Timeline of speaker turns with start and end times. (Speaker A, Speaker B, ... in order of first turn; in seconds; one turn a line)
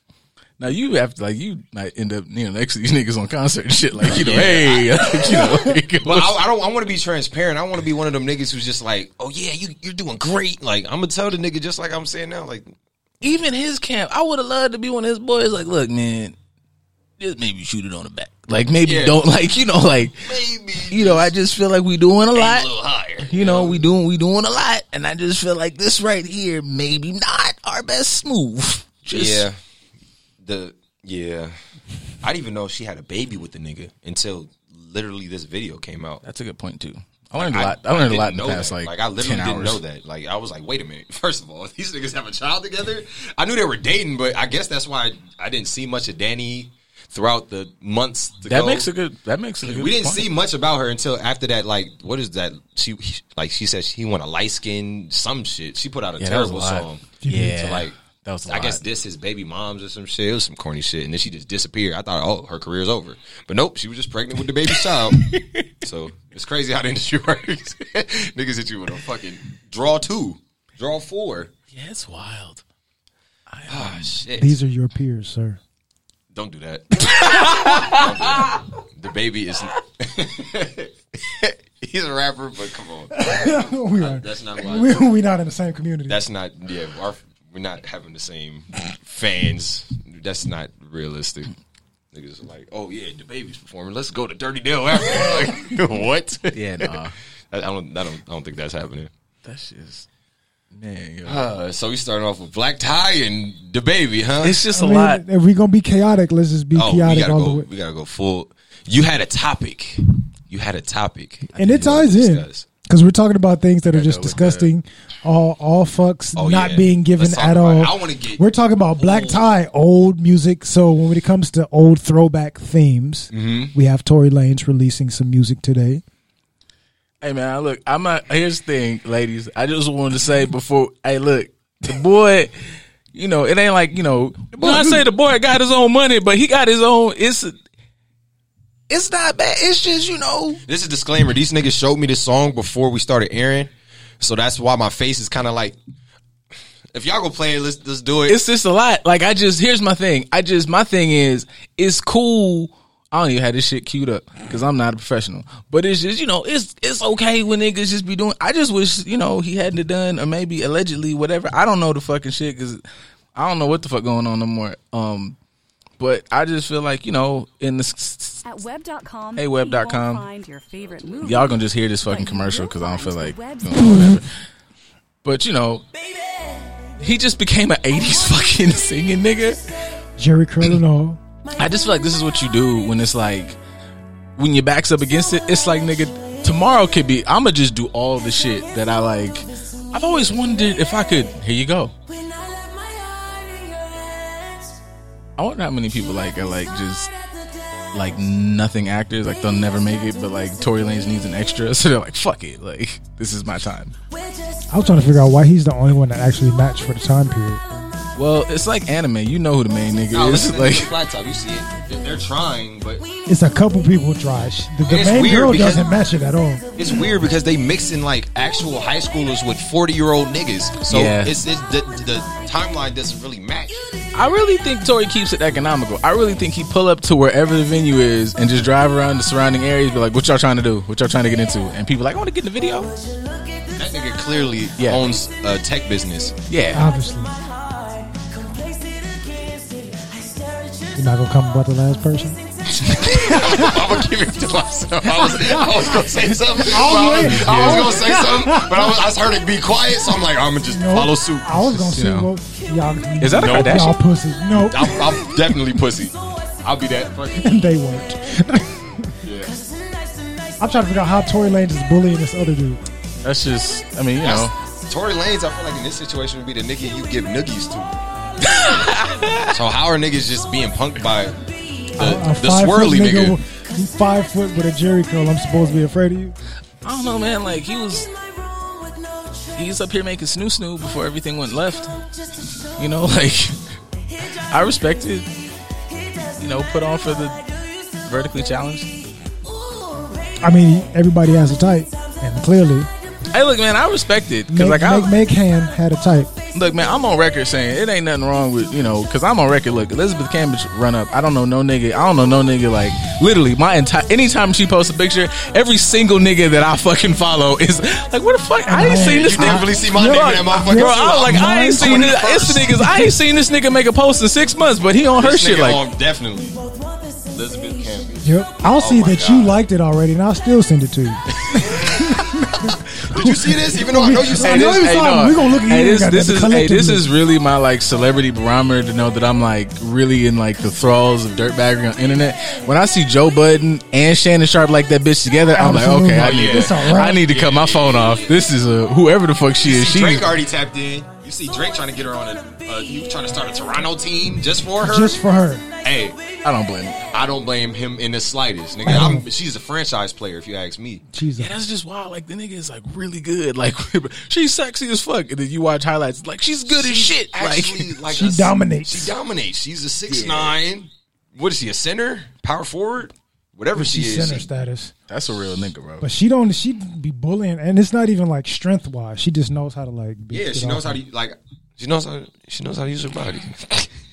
Speaker A: 0.6-6.4
Speaker B: 4.0-12.7
Speaker A: 13.2-16.3
Speaker A: 17.2-20.3
Speaker B: 18.8-19.3
Speaker B: 20.2-21.3
Speaker A: 20.9-22.7
Speaker B: 22.3-23.9
Speaker A: 23.2-29.5
Speaker B: 29.1-29.6
Speaker B: 30.4-31.5
Speaker B: 32.2-36.2
Speaker A: 36.2-39.8
Speaker B: 37.4-48.9
Speaker A: 48.4-50.3
Speaker B: 49.6-57.9
Speaker A: 56.2-58.8
Speaker C: 57.2-57.6
Speaker B: 58.5-71.5
Speaker A: 64.7-65.7
Speaker A: 71.7-72.6
Speaker A: 73.5-74.2
Speaker B: 73.7-74.5
Speaker C: 74.4-75.6
Speaker B: 76.3-85.1
Speaker A: 77.1-78.6
Speaker C: 83.1-86.2
Speaker B: 86.1-91.5
Speaker B: 92.1-97.0
Speaker A: 96.5-97.2
Speaker B: 97.5-99.1
Speaker A: 99.4-100.1
Speaker A: 100.7-101.5
Speaker B: 101.2-104.6
Speaker A: 104.4-105.2
Speaker C: 104.7-107.7
Speaker B: 106.7-112.7
Speaker C: 111.5-126.0
Speaker A: 113.9-114.7
Speaker B: 116.3-118.4
Speaker B: 119.0-119.5
Speaker B: 123.3-123.7
Speaker A: 127.2-132.5
Speaker A: 133.1-137.5
Speaker C: 134.6-135.0
Speaker A: 138.9-140.6
Speaker B: 140.7-145.8
Speaker B: 146.9-148.4
Speaker A: 148.3-162.8
Speaker A: 163.3-165.3
Speaker A: 166.0-168.4
Speaker D: 168.4-174.2
Speaker A: 169.3-170.2
Speaker A: 171.2-174.3
Speaker A: 175.2-175.8
Speaker A: 177.0-179.7
Speaker C: 180.2-181.2
Speaker A: 181.5-183.6
Speaker A: 184.4-191.9
Speaker D: 193.0-193.4
Speaker A: 195.4-197.1
Speaker A: 197.9-203.9
Speaker C: 204.7-207.6
Speaker A: 208.2-210.9
Speaker B: 210.1-213.0
Speaker C: 213.3-216.7
Speaker B: 214.8-215.8
Speaker B: 216.8-224.0
Speaker A: 220.8-221.3
Speaker A: 224.1-233.1
Speaker B: 233.7-236.3
Speaker A: 234.8-235.1
Speaker A: 236.5-236.9
Speaker C: 236.7-237.3
Speaker C: 240.9-242.4
Speaker B: 242.8-251.6
Speaker C: 243.2-243.8
Speaker C: 245.4-245.8
Speaker C: 246.6-248.8
Speaker A: 247.2-248.0
Speaker C: 250.7-255.0
Speaker A: 251.6-252.3
Speaker A: 253.2-254.0
Speaker B: 253.4-253.9
Speaker B: 254.5-257.6
Speaker C: 257.4-259.2
Speaker B: 259.2-259.5
Speaker C: 260.6-262.8
Speaker A: 263.2-264.5
Speaker B: 264.2-267.9
Speaker A: 268.4-269.6
Speaker B: 269.5-271.4
Speaker B: 271.9-273.4
Speaker C: 272.0-276.3
Speaker A: 276.8-278.1
Speaker A: 279.5-282.0
Speaker A: 282.6-283.6
Speaker A: 284.3-285.3
Speaker A: 286.2-289.1
Speaker C: 290.4-292.9
Speaker A: 293.3-295.2
Speaker C: 294.5-296.3
Speaker A: 296.5-315.8
Speaker C: 308.6-312.2
Speaker B: 309.0-312.7
Speaker C: 312.8-313.1
Speaker B: 315.2-316.6
Speaker B: 317.3-319.6
Speaker C: 318.2-327.1
Speaker B: 321.5-322.1
Speaker B: 323.0-324.9
Speaker A: 324.4-340.3
Speaker C: 335.5-337.2
Speaker B: 336.2-338.4
Speaker B: 339.6-345.2
Speaker C: 344.8-345.6
Speaker B: 345.8-346.2
Speaker A: 346.4-347.0
Speaker B: 347.1-351.0
Speaker C: 348.8-349.2
Speaker C: 351.1-351.6
Speaker A: 351.4-357.9
Speaker B: 356.7-364.5
Speaker C: 358.1-359.1
Speaker A: 360.1-360.6
Speaker C: 363.7-364.9
Speaker A: 365.1-366.1
Speaker C: 366.0-371.0
Speaker B: 370.3-373.9